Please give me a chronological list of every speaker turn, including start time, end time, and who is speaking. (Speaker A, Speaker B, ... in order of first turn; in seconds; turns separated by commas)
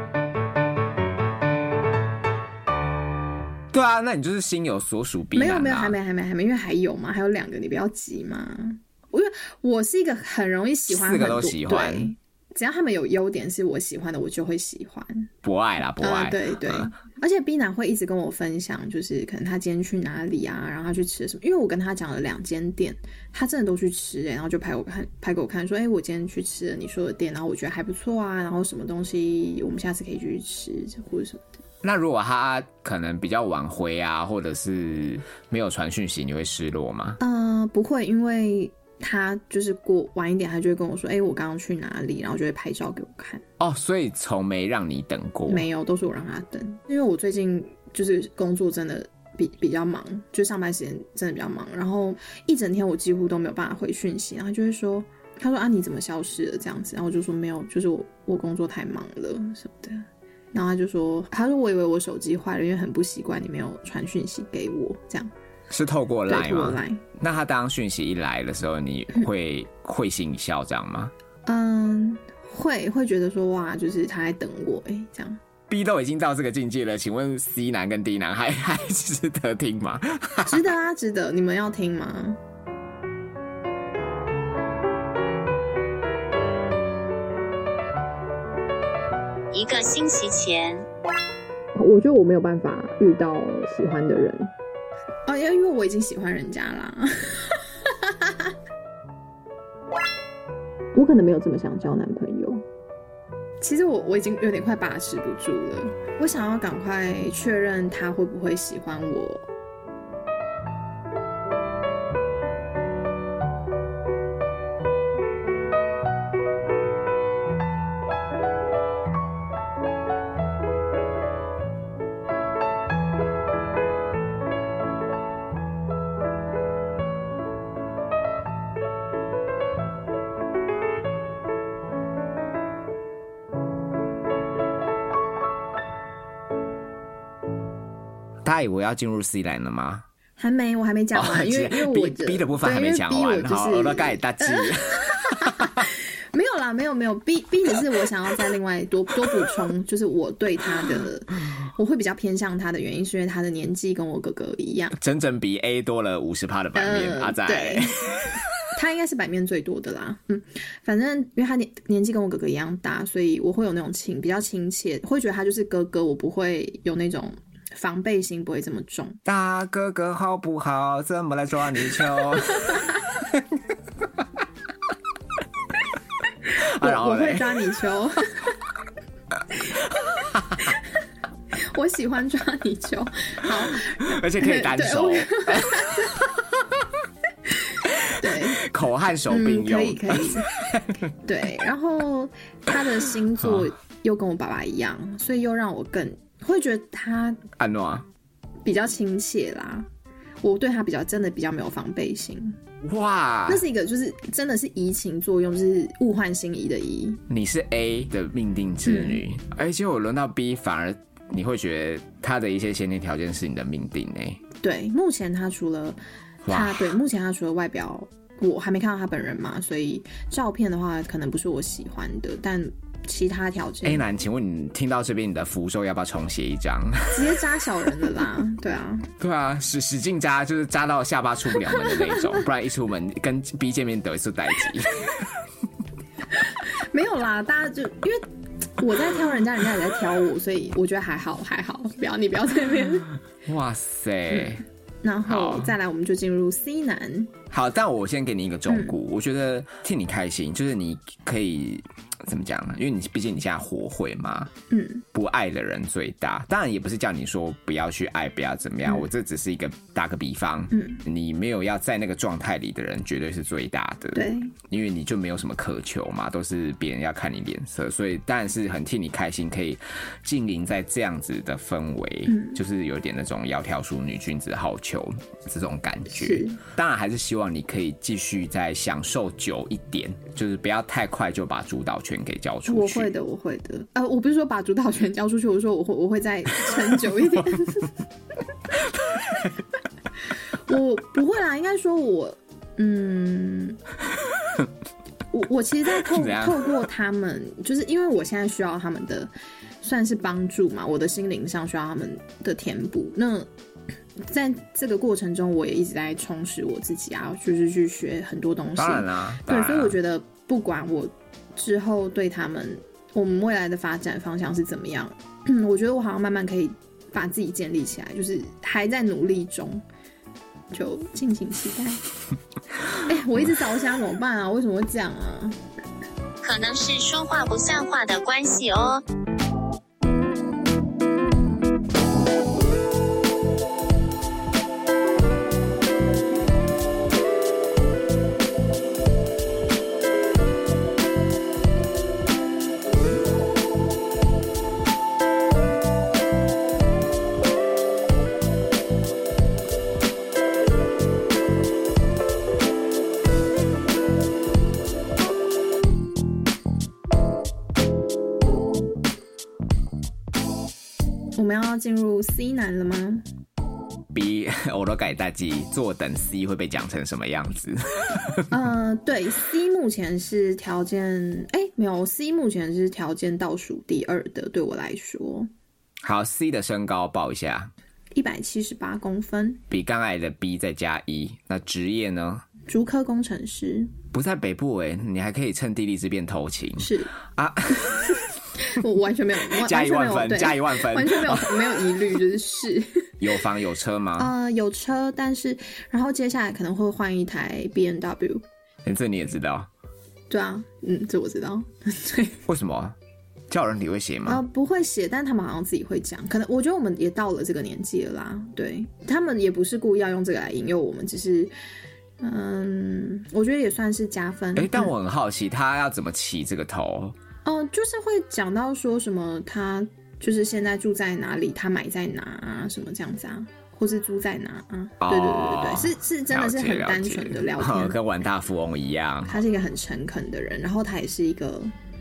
Speaker A: 3.7-6.0, Speaker B: 5.3-15.3, Speaker A: 10.9-12.1, Speaker A: 15.4-16.9, Speaker B: 16.0-31.5, Speaker A: 31.8-37.2, Speaker B: 37.2-43.4, Speaker A: 43.6-45.7, Speaker B: 45.5-65.3, Speaker A: 65.7-71.1, Speaker B: 66.3-67.0, Speaker B: 71.5-75.4, Speaker A: 75.7-80.7, Speaker B: 80.4-82.4, Speaker C: 89.5-90.8, Speaker B: 91.8-94.5, Speaker B: 95.3-98.5, Speaker B: 101.0-102.6, Speaker B: 103.6-109.5, Speaker A: 138.4-140.1, Speaker B: 140.4-155.0, Speaker A: 141.1-145.9, Speaker A: 155.0-158.4, Speaker B: 156.8-158.2, Speaker B: 158.7-169.2, Speaker A: 169.2-173.4, Speaker B: 172.5-172.9, Speaker B: 176.5-178.5, Speaker A: 176.6-177.6, Speaker A: 180.0-180.7, Speaker B: 180.6-180.9, Speaker B: 181.5-186.3, Speaker A: 183.5-186.2, Speaker B: 187.5-188.7, Speaker A: 187.9-191.0, Speaker B: 189.3-190.5, Speaker B: 191.2-197.4, Speaker A: 193.4-193.7, Speaker A: 197.6-198.1, Speaker B: 198.7-199.9, Speaker B: 200.4-202.6, Speaker A: 202.8-203.6, Speaker B: 203.5-207.2, Speaker A: 207.3-214.4, Speaker B: 208.8-209.2, Speaker B: 214.6-224.1, Speaker A: 216.4-217.0, Speaker A: 223.8-227.3, Speaker B: 227.1-229.1, Speaker A: 229.2-235.3, Speaker B: 231.7-232.4, Speaker B: 236.3-238.2, Speaker B: 238.8-243.1, Speaker A: 243.4-244.6, Speaker B: 244.3-247.3, Speaker A: 245.3-245.8, Speaker A: 247.5-254.5, Speaker B: 248.7-249.0, Speaker B: 254.7-255.1, Speaker A: 255.1-283.1, Speaker B: 260.7-261.0, Speaker B: 264.1-264.6, Speaker B: 272.3-272.6, Speaker B: 276.1-276.6, Speaker B: 282.7-287.9, Speaker A: 288.8-289.5, Speaker B: 290.7-293.8, Speaker B: 295.3-299.3, Speaker A: 296.0-296.8, Speaker B: 299.8-303.5, Speaker B: 304.2-319.8, Speaker A: 308.8-310.0, Speaker B: 320.7-322.0, Speaker B: 323.1-325.6, Speaker C: 326.4-329.0, Speaker B: 361.4-363.2, Speaker A: 364.1-368.5, Speaker B: 368.5-375.5, Speaker A: 376.0-377.7, Speaker B: 378.1-379.6, Speaker A: 379.7-382.4, Speaker B: 382.7-384.0, Speaker A: 384.1-388.3, Speaker B: 386.8-387.2, Speaker B: 388.6-393.1, Speaker A: 389.5-391.8, Speaker A: 393.2-394.3, Speaker B: 394.2-398.4, Speaker A: 398.9-399.7, Speaker B: 400.3-402.4, Speaker A: 402.5-403.0, Speaker A: 403.5-404.4, Speaker B: 404.3-411.5, Speaker B: 412.2-414.9, Speaker A: 414.6-417.2, Speaker B: 417.4-428.0, Speaker A: 425.0-429.4, Speaker B: 429.3-431.7